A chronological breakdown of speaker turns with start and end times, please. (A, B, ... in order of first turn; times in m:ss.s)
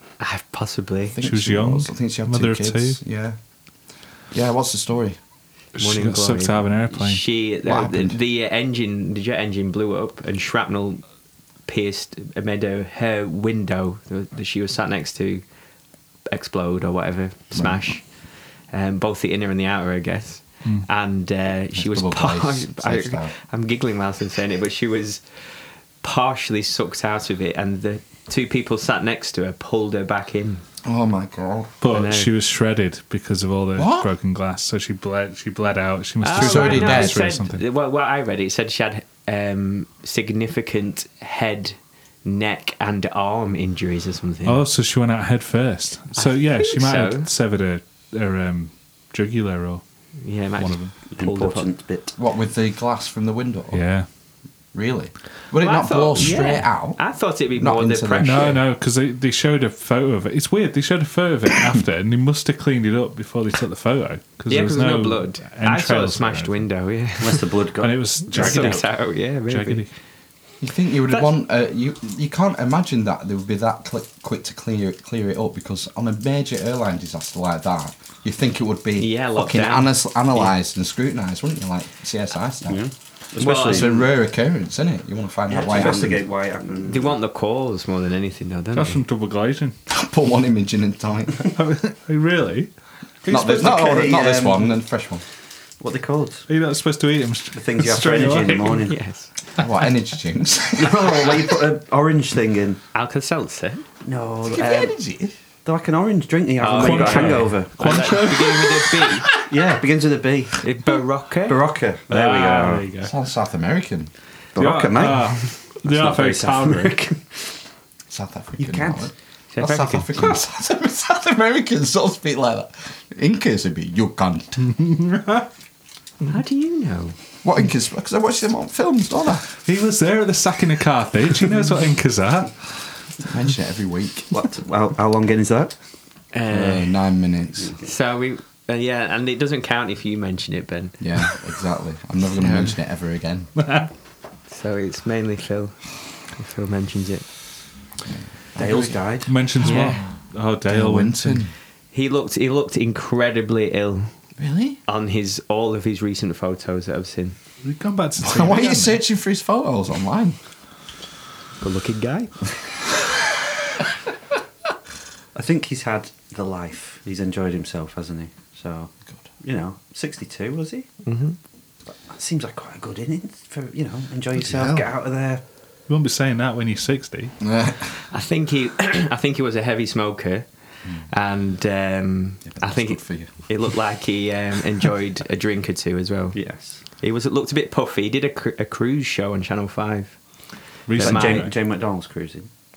0:00.2-0:01.2 A
0:01.1-0:03.4 B
0:01.2-0:03.0 C
0:04.3-0:05.2 B
0:05.7-0:11.0 A
0:05.8-0:07.2 C
0:07.6-0:08.2 B
0:11.6-0:15.4 A
0:16.3-0:18.1 A
0:17.5-0:17.8 B
0:18.7-0:25.2 A
0:21.7-0:23.3 B
0:26.0-0:30.6 A
0:30.8-0:31.7 B
0:31.8-0:37.6 C
0:31.9-0:32.3 A
0:33.8-0:34.1 B
0:36.2-0:44.6 A
0:36.3-0:37.2 B
0:44.4-0:49.8 C
0:46.1-0:47.3 A
0:50.2-0:51.7 A
0:50.6-0:50.9 C
0:51.1-0:52.1 D
0:52.2-0:53.8 B
0:53.7-0:54.0 C
0:54.7-0:57.0 B
0:55.6-0:58.6 A
0:57.5-0:58.6 B
0:58.2-1:06.6 C
1:04.5-1:07.5 A
1:07.2-1:08.8 D
1:07.8-1:08.9 C
1:08.3-1:09.8 A
1:09.5-1:09.9 C
1:10.6-1:22.8 B
1:19.0-1:19.9 A
1:22.6-1:24.1 D
1:23.4-1:23.9 A
1:23.4-1:26.2 B
1:25.5-1:27.2 D
1:26.9-1:29.0 A
1:28.7-1:29.7 C
1:29.9-1:31.5 B
1:31.5-1:32.7 C
1:33.2-1:33.9 C
1:33.3-1:35.2 B
1:33.4-1:34.7 D
1:35.8-1:36.5 D
1:36.5-1:38.9 C
1:37.5-1:39.0 D
1:38.9-1:39.3 A
1:39.6-1:41.6 B
1:40.8-1:42.8 D
1:42.9-1:43.8 A
1:44.0-1:45.0 D
1:44.4-1:45.3 B
1:45.6-1:48.1 D
1:46.6-1:49.3 A
1:46.7-1:49.4 C
1:49.4-1:50.6 D
1:50.6-1:51.6 A
1:51.5-1:52.9 D
1:52.1-1:53.1 C
1:53.0-1:54.1 B
1:54.5-1:57.6 D
1:54.6-1:57.0 C
1:58.1-2:04.7 B
1:58.6-1:59.1 D
1:59.5-2:00.1 A
2:04.7-2:05.4 C
2:06.2-2:07.2 A
2:07.4-2:09.4 B
2:09.5-2:13.1 C
2:13.2-2:14.3 B
2:14.3-2:15.7 D
2:16.3-2:17.0 A
2:16.5-2:17.7 B
2:17.6-2:17.8 D
2:17.8-2:21.4 A
2:21.0-2:23.5 B
2:22.4-2:22.7 A
2:23.6-2:23.9 C
2:24.5-2:27.3 A
2:28.1-2:28.9 B
2:28.6-2:29.3 D
2:29.2-2:31.4 C
2:29.6-2:30.0 A
2:30.7-2:31.5 B
2:31.9-2:34.1 A
2:34.4-2:34.8 B
2:34.8-2:37.4 A
2:37.6-2:39.0 C
2:38.2-2:40.4 B
2:41.6-2:42.5 A
2:45.3-2:50.9 D
2:51.0-2:51.4 A
2:51.8-2:55.4 D
2:54.5-2:54.8 B
2:55.9-2:57.3 C
2:57.4-2:57.9 B
2:58.1-3:00.5 A
3:01.1-3:10.2 A
3:02.4-3:03.3 B
3:06.3-3:06.8 D
3:10.9-3:11.5 C
3:11.0-3:11.5 A
3:11.0-3:12.5 D